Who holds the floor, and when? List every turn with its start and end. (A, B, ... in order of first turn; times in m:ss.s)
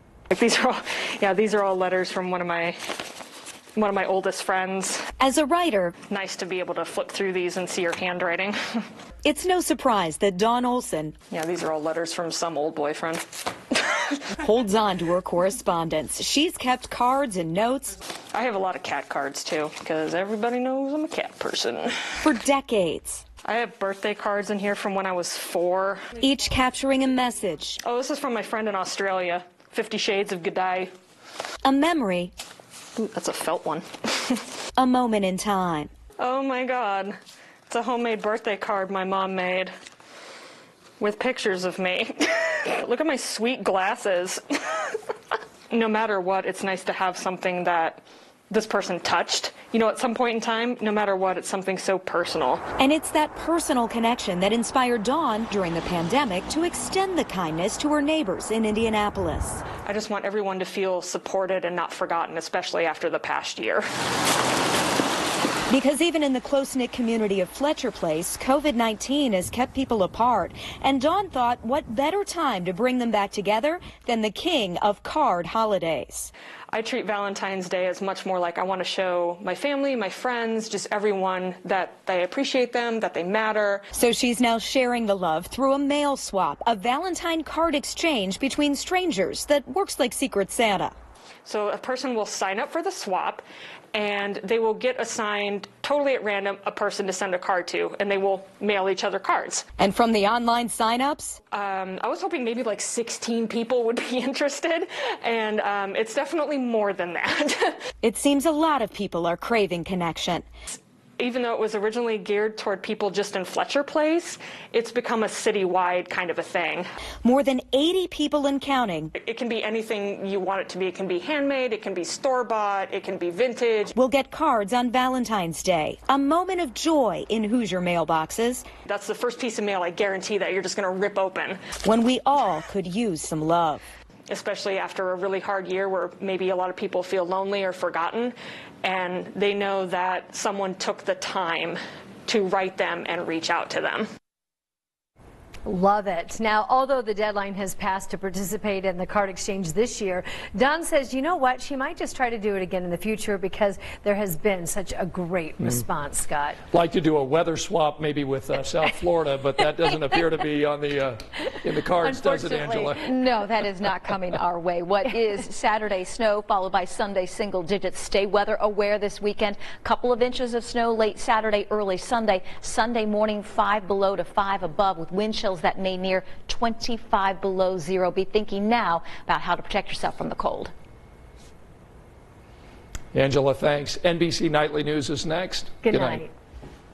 0:00.3-0:02.8 A
0:03.8-0:05.0 A
0:05.2-0:05.9 B
0:06.1-0:08.8 A
0:09.2-0:11.2 B
0:11.3-0:14.0 A
0:14.4-0:18.0 B
0:18.3-0:21.9 A
0:22.2-0:23.2 B
0:23.4-0:26.1 A
0:26.2-0:27.8 B
0:27.8-0:30.9 A
0:31.6-0:32.3 B
0:33.0-0:34.4 A
0:34.8-0:35.9 B
0:36.2-0:37.2 A
0:37.7-0:39.7 A
0:41.0-0:45.0 A
0:45.7-0:52.6 A
0:52.8-0:59.6 B
0:59.8-1:03.8 A
1:05.7-1:16.3 B
1:16.7-1:23.8 A
1:23.9-1:30.9 B
1:31.4-1:39.6 A
1:39.8-1:41.4 B
1:41.5-1:47.8 A
1:48.0-1:50.5 B
1:51.2-1:56.8 A
1:57.2-1:59.1 B
1:59.2-2:03.9 A
2:04.0-2:08.6 B
2:08.8-2:11.6 A
2:11.8-2:13.8 B
2:14.3-2:24.1 A
2:25.7-2:36.6 C
2:36.7-2:43.1 D
2:42.1-2:42.8 C
2:43.0-3:00.7 E
3:03.1-3:06.2 D
3:05.8-3:06.3 C